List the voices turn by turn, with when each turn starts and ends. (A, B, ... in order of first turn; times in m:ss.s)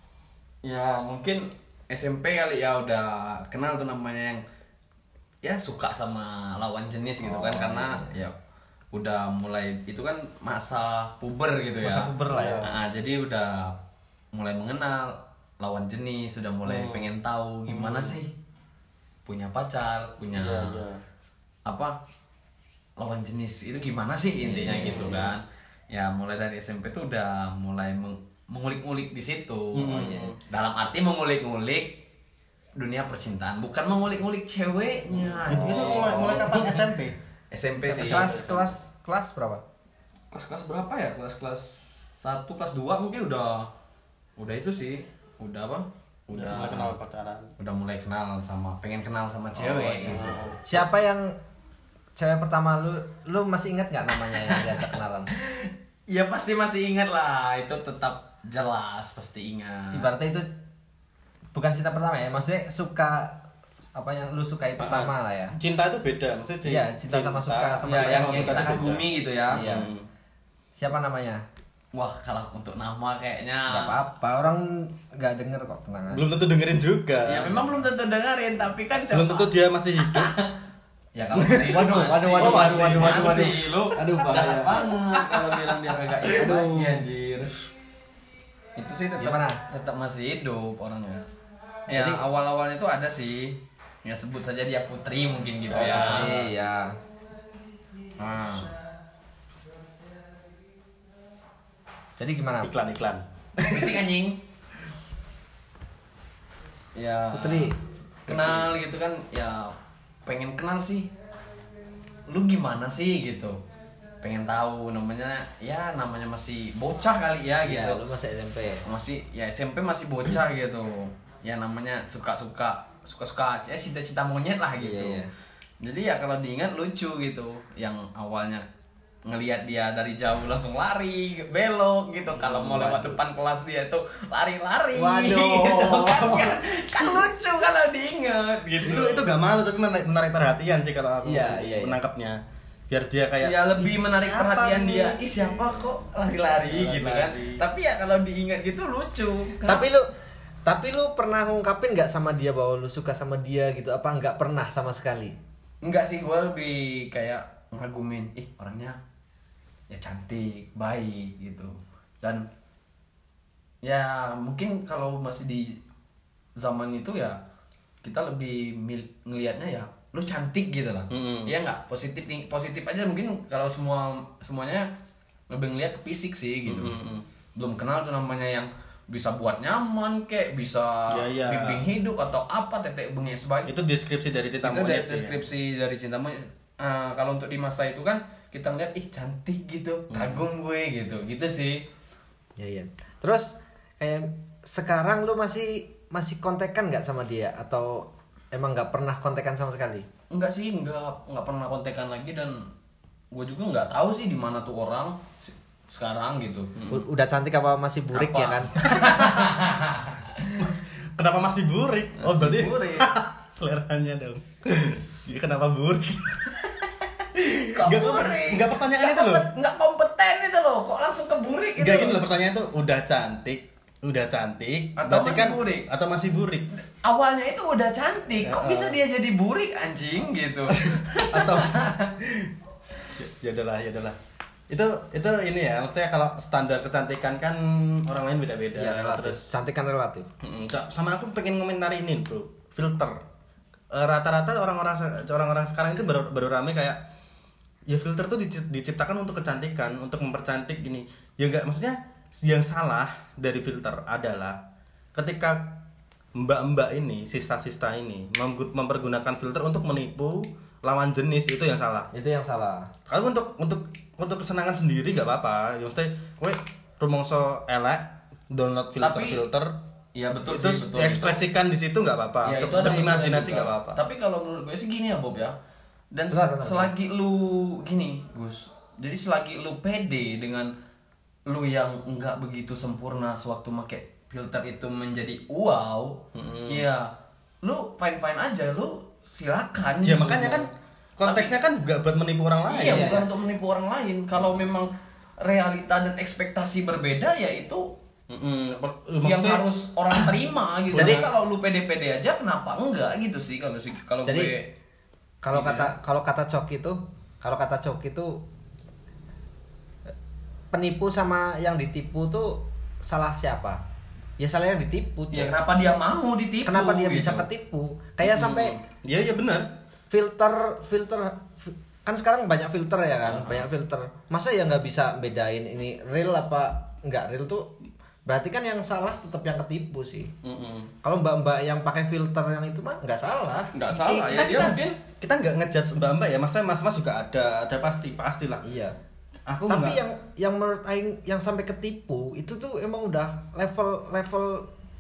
0:00.6-0:04.4 A
0:05.4-0:08.3 A
0:07.2-0:08.1 B
0:08.9-0:12.1 A
0:11.8-0:12.6 B
0:12.3-0:12.7 C
0:12.6-0:13.8 A
0:14.3-0:18.3 A
0:16.6-0:17.1 C
0:17.7-0:18.1 C
0:19.2-0:20.8 A
0:20.3-0:21.0 C
0:21.6-0:22.0 A
0:23.0-0:32.0 A
0:24.5-0:25.3 C
0:24.6-0:25.3 B
0:29.7-0:30.4 C
0:32.8-0:36.9 A
0:35.1-0:37.2 C
0:35.5-0:36.1 B
0:37.5-0:38.4 A
0:37.8-0:38.7 C
0:38.0-0:39.6 B
0:40.3-0:43.7 A
0:44.4-0:46.9 A
0:46.3-0:47.5 C
0:47.6-0:50.4 A
0:49.8-0:51.4 B
0:50.1-0:50.9 C
0:52.2-0:55.3 B
0:55.4-1:00.1 A
0:59.9-1:00.5 B
1:01.5-1:03.4 B
1:03.9-1:05.5 B
1:04.8-1:10.0 C
1:06.6-1:09.0 B
1:07.8-1:09.7 A
1:09.5-1:09.9 B
1:10.8-1:11.4 B
1:11.9-1:14.0 A
1:13.7-1:16.2 B
1:16.1-1:17.7 C
1:17.2-1:20.5 A
1:19.1-1:20.3 C
1:21.1-1:27.6 A
1:21.3-1:24.6 C
1:21.4-1:24.9 B
1:26.4-1:27.0 C
1:28.8-1:31.3 A
1:29.2-1:29.6 B
1:31.9-1:36.5 A
1:31.9-1:32.2 B
1:35.7-1:36.5 C
1:35.8-1:37.0 B
1:38.2-1:38.7 A
1:42.2-1:42.7 B
1:42.6-1:44.0 C
1:43.6-1:44.4 A
1:46.9-1:47.7 A
1:47.3-1:47.8 B
1:48.3-1:49.7 A
1:48.3-1:48.7 C
1:50.2-1:51.1 A
1:52.3-1:53.6 A
1:54.2-1:58.0 A
1:57.6-1:58.8 B
1:58.8-2:05.3 A
2:04.8-2:05.3 B
2:05.8-2:08.6 A
2:09.2-2:19.3 A
2:12.4-2:12.9 C
2:12.6-2:13.2 B
2:14.9-2:16.6 B
2:18.8-2:27.6 C
2:21.2-2:22.0 B
2:23.4-2:29.8 A
2:29.6-2:30.1 B
2:30.6-2:35.4 B
2:35.8-2:39.0 A
2:39.9-2:42.5 A
2:43.8-2:45.8 A
2:46.6-2:47.4 A
2:48.0-2:54.9 A
2:51.1-2:51.5 C
2:55.5-2:57.0 A
2:56.6-2:57.2 C
2:57.5-3:03.8 A
3:01.1-3:01.8 C
3:03.7-3:05.4 C
3:04.6-3:11.8 A
3:10.1-3:10.5 C
3:12.6-3:20.1 B
3:20.3-3:22.7 A
3:23.3-3:26.7 A
3:26.7-3:27.0 C
3:26.9-3:29.1 B
3:28.1-3:30.6 A
3:29.0-3:29.4 C
3:30.6-3:36.8 C
3:32.2-3:33.1 A
3:37.3-3:39.5 C
3:37.6-3:42.2 A
3:41.8-3:46.7 C
3:45.0-3:45.9 A
3:46.8-3:52.1 A
3:48.4-3:49.0 C
3:50.7-3:52.5 C
3:53.1-3:54.2 C
3:54.7-3:59.5 C
3:58.7-4:00.3 B
4:00.4-4:03.2 C
4:03.9-4:07.0 C
4:07.9-4:14.6 C
4:15.1-4:15.8 C
4:16.3-4:22.1 C
4:22.1-4:22.9 B
4:23.1-4:29.7 C
4:29.0-4:29.4 A
4:30.1-4:31.4 A
4:30.5-4:34.0 C
4:32.4-4:35.6 A
4:36.1-4:40.7 A
4:36.3-4:36.9 B
4:41.5-4:47.1 A
4:46.3-4:46.8 C
4:47.6-4:50.7 A
4:50.0-4:53.2 C
4:51.2-4:51.5 A
4:52.7-4:57.9 A
4:52.8-4:53.2 B
4:58.3-4:59.7 C
4:59.2-5:04.7 A
5:00.9-5:01.3 C
5:00.9-5:01.2 B
5:04.2-5:04.5 B
5:05.4-5:08.4 B
5:05.5-5:05.9 A
5:10.7-5:13.8 B
5:14.4-5:15.6 B
5:15.3-5:17.5 A
5:16.6-5:18.8 B
5:18.2-5:19.7 C
5:20.1-5:27.7 B
5:23.2-5:23.7 C
5:28.2-5:30.3 B
5:30.4-5:30.9 C
5:31.0-5:33.7 B
5:33.7-5:34.8 A
5:33.9-5:38.6 C
5:38.6-5:39.0 B
5:39.5-5:40.0 C
5:39.7-5:44.7 B